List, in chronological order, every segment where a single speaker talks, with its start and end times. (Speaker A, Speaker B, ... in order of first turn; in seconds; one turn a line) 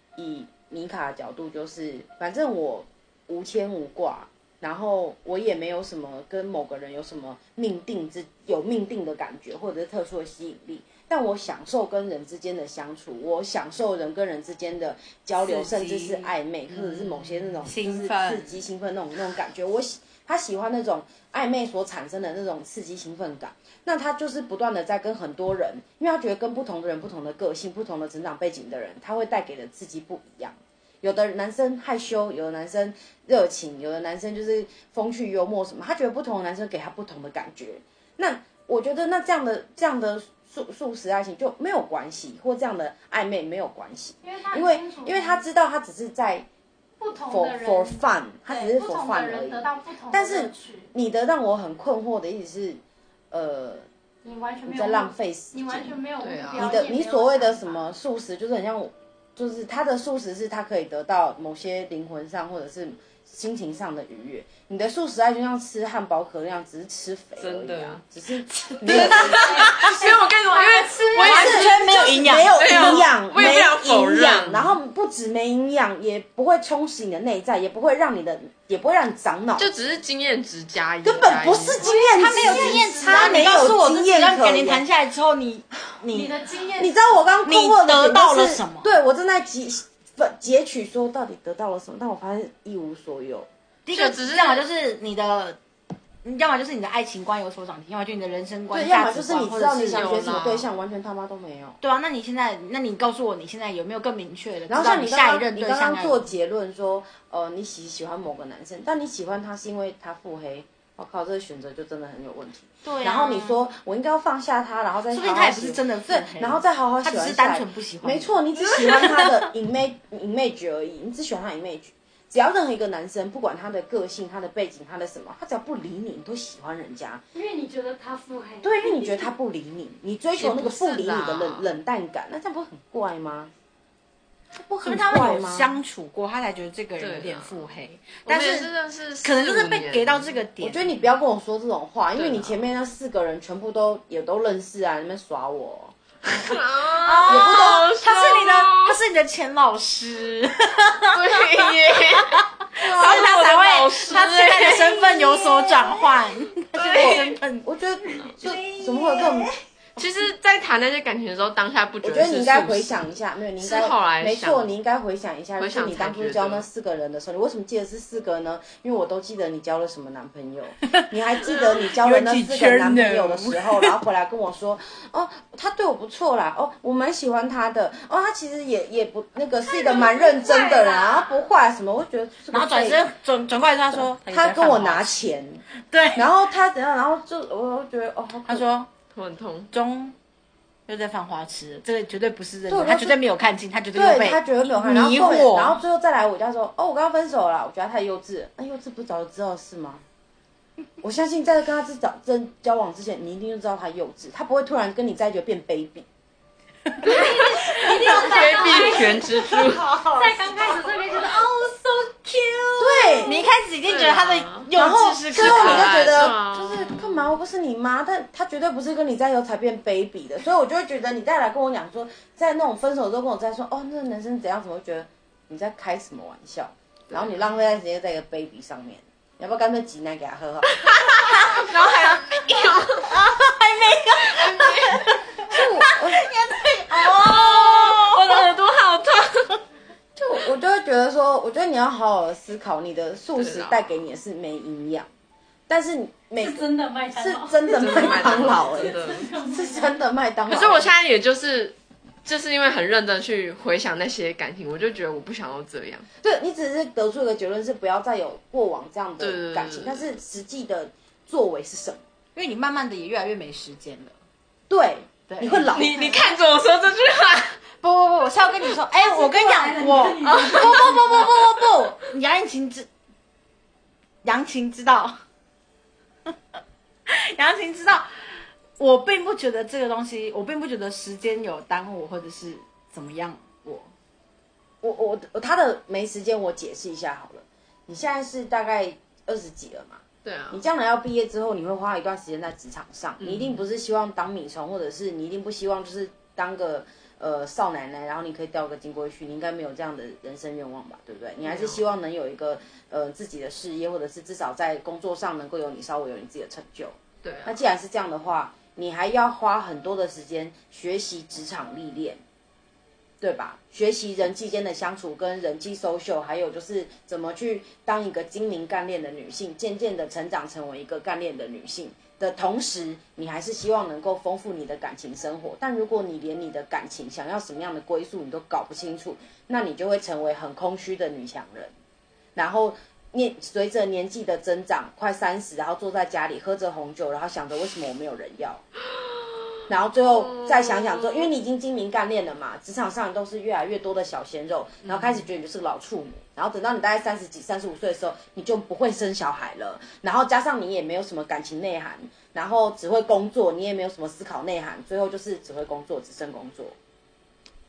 Speaker A: 0.2-46.5
Speaker B: 15.4-18.6
Speaker C: 44.2-45.4
Speaker C: 47.0-50.9
Speaker A: 47.3-52.8
Speaker A: 53.3-53.9
Speaker C: 54.2-57.8
Speaker A: 54.7-56.0
Speaker D: 56.2-56.7
Speaker A: 56.5-69.7
Speaker D: 67.4-68.0
Speaker D: 68.8-74.8
Speaker C: 68.9-71.7
Speaker B: 71.2-73.0
Speaker A: 71.2-79.7
Speaker D: 79.6-81.8
Speaker A: 81.0-84.8
Speaker C: 81.8-83.7
Speaker B: 81.9-86.3
Speaker C: 86.1-87.3
Speaker A: 86.8-93.5
Speaker B: 87.5-88.9
Speaker B: 93.9-95.6
Speaker D: 93.9-94.7
Speaker B: 96.2-100.2
Speaker A: 98.7-101.8
Speaker D: 99.9-100.7
Speaker B: 101.8-106.2
Speaker A: 104.7-127.2
Speaker B: 112.8-113.6
Speaker B: 115.1-119.4
Speaker C: 127.3-129.3
Speaker A: 128.6-133.5
Speaker D: 130.4-131.7
Speaker B: 134.6-138.7
Speaker A: 134.8-135.8
Speaker D: 137.0-137.7
Speaker D: 138.2-140.3
Speaker B: 139.2-140.9
Speaker A: 140.6-146.0
Speaker D: 142.2-142.6
Speaker D: 146.3-149.0
Speaker B: 147.0-157.7
Speaker A: 147.3-147.9
Speaker D: 151.1-155.5
Speaker D: 156.8-157.4
Speaker A: 156.9-159.5
Speaker B: 158.4-159.4
Speaker D: 160.0-163.1
Speaker A: 162.0-183.0
Speaker D: 163.6-164.7
Speaker D: 165.6-166.7
Speaker B: 171.8-174.0
Speaker C: 179.7-181.4
Speaker B: 182.5-185.2
Speaker A: 183.9-188.6
Speaker B: 185.9-186.3
Speaker B: 188.5-188.9
Speaker D: 189.1-189.7
Speaker B: 189.7-190.2
Speaker B: 190.9-195.8
Speaker A: 192.7-193.2
Speaker A: 193.9-200.0
Speaker A: 201.0-206.1
Speaker C: 207.0-209.6
Speaker D: 207.1-209.8
Speaker B: 207.8-208.2
Speaker E: 208.2-211.0
Speaker C: 210.1-213.4
Speaker A: 212.8-213.4
Speaker B: 213.2-216.2
Speaker D: 213.9-214.7
Speaker A: 214.7-230.8
Speaker D: 215.3-217.1
Speaker D: 227.1-227.3
Speaker D: 230.8-233.1
Speaker B: 231.4-238.5
Speaker D: 234.2-235.2
Speaker A: 235.5-236.2
Speaker D: 237.0-239.6
Speaker A: 240.2-245.1
Speaker D: 243.4-243.9
Speaker A: 245.7-250.9
Speaker C: 246.4-249.9
Speaker D: 247.7-249.3
Speaker D: 250.5-256.1
Speaker A: 256.2-262.0
Speaker D: 259.2-260.1
Speaker B: 262.4-264.2
Speaker A: 264.7-266.2
Speaker B: 265.3-266.1
Speaker D: 265.7-267.6
Speaker B: 267.8-272.9
Speaker C: 268.9-271.2
Speaker D: 270.2-271.5
Speaker B: 274.2-275.2
Speaker B: 277.1-283.9
Speaker A: 284.8-312.2
Speaker D: 290.2-290.6
Speaker D: 293.2-293.6
Speaker D: 301.4-301.8
Speaker D: 307.2-307.6
Speaker A: 313.2-331.7
Speaker A: 332.4-338.6
Speaker D: 338.9-341.3
Speaker A: 339.7-356.8
Speaker D: 344.8-345.2